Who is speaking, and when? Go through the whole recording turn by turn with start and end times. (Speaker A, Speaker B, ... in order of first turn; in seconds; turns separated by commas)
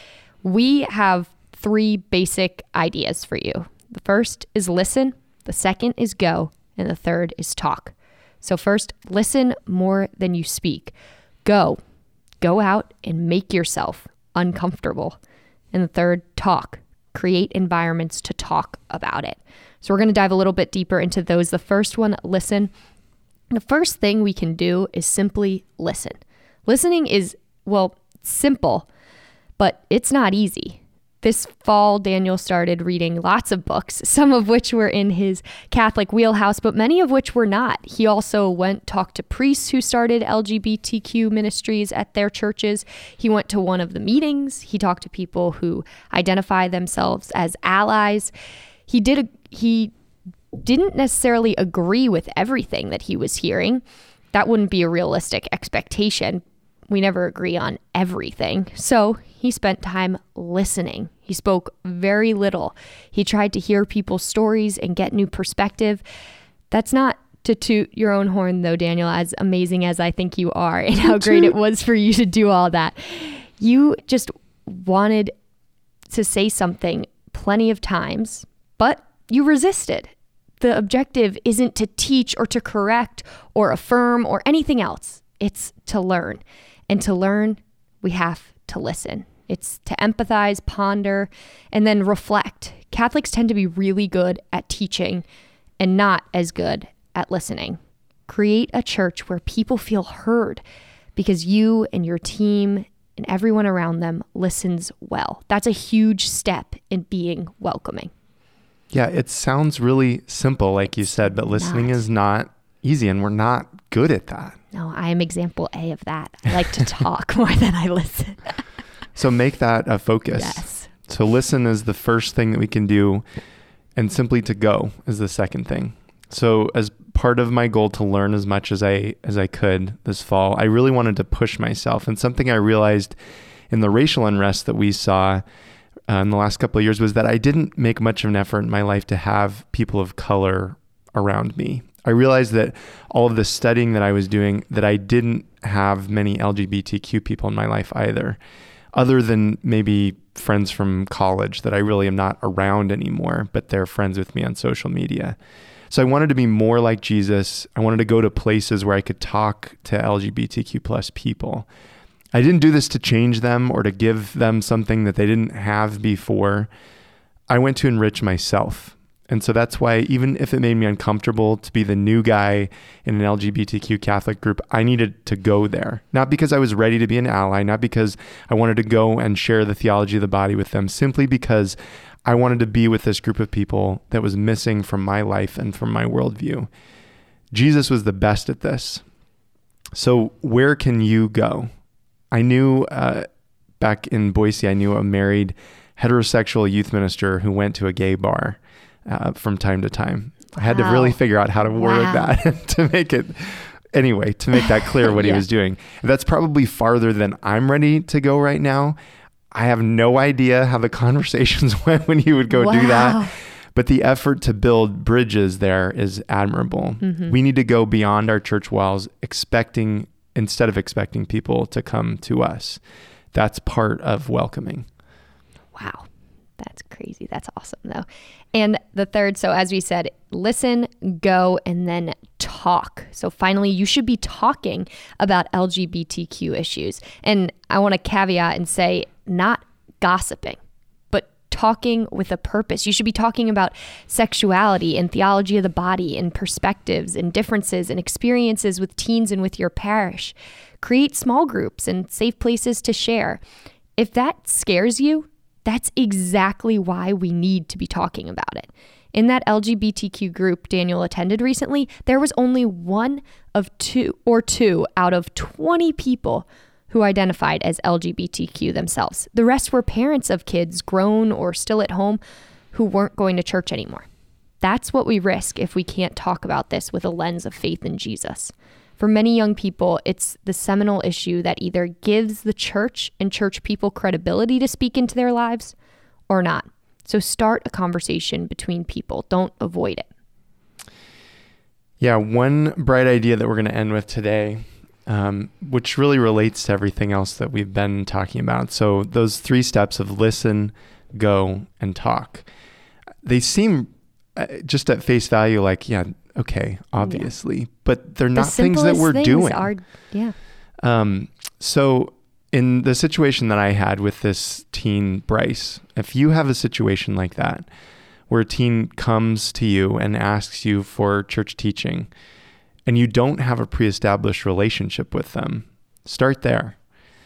Speaker A: 0.4-11.8, Speaker A: 12.4-15.2, Speaker A: 15.7-22.7, Speaker A: 23.5-28.9, Speaker A: 29.6-48.3, Speaker A: 48.9-49.9, Speaker A: 50.5-66.0, Speaker A: 66.7-75.3, Speaker A: 76.1-95.3, Speaker A: 95.8-100.6, Speaker A: 101.2-108.1, Speaker B: 108.9-114.6, Speaker A: 111.2-112.0, Speaker A: 114.7-118.6, Speaker B: 119.2-123.2, Speaker A: 120.3-120.9, Speaker B: 124.0-133.2, Speaker B: 133.7-135.4, Speaker B: 136.1-148.4, Speaker B: 148.9-155.4, Speaker B: 155.9-161.7, Speaker B: 162.3-166.7, Speaker B: 167.5-186.7, Speaker B: 187.5-189.0, Speaker B: 189.9-191.7, Speaker B: 192.3-193.3, Speaker B: 193.8-209.0, Speaker A: 200.6-202.3, Speaker A: 205.1-205.4, Speaker B: 209.5-222.8, Speaker A: 212.5-213.3, Speaker A: 217.0-217.3, Speaker B: 223.3-224.9, Speaker A: 225.7-240.6, Speaker A: 241.1-253.4, Speaker A: 254.0-272.2, Speaker A: 272.7-274.1, Speaker A: 274.6-285.8, Speaker A: 286.3-290.1, Speaker B: 292.0-302.5, Speaker B: 303.2-309.7, Speaker A: 307.0-307.3, Speaker A: 308.3-310.4, Speaker B: 310.8-317.7, Speaker B: 318.3-322.1, Speaker B: 322.9-326.8